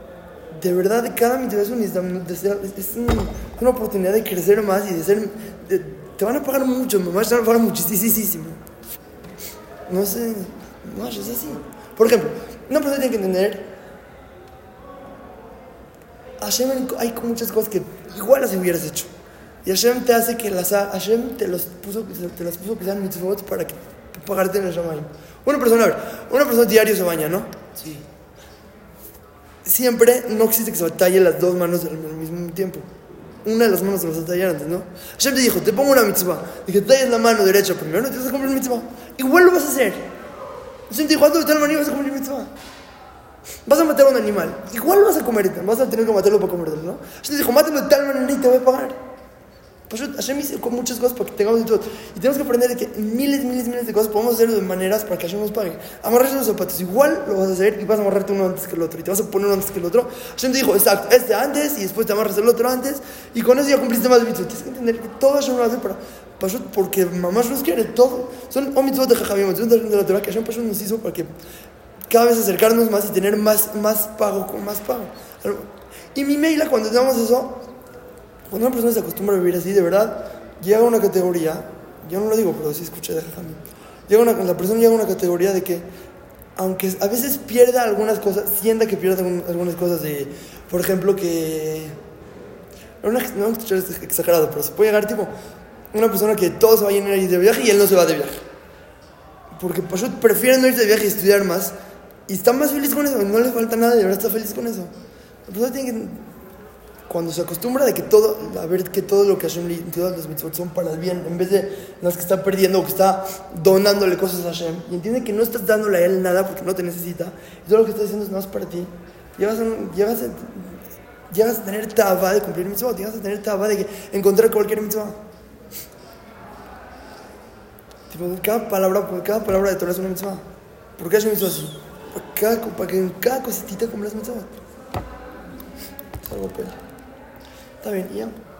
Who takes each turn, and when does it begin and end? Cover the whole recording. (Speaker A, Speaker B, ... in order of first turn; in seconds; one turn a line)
Speaker A: 0.5-8.6
Speaker A: 9.9-13.7
Speaker A: 16.4-19.1
Speaker A: 19.6-27.5
Speaker A: 29.6-32.9
Speaker A: 33.4-40.1
Speaker A: 40.9-42.5
Speaker A: 43.6-49.0
Speaker A: 49.9-71.3
Speaker A: 72.1-77.6
Speaker A: 78.5-85.8
Speaker A: 86.5-92.0
Speaker A: 93.0-95.3
Speaker A: 95.9-98.4
Speaker A: 99.5-101.7
Speaker A: 102.3-104.9
Speaker A: 105.5-106.2
Speaker A: 107.1-125.2
Speaker A: 128.1-130.4
Speaker A: 131.0-134.6
Speaker A: 136.2-136.8
Speaker A: 137.8-138.4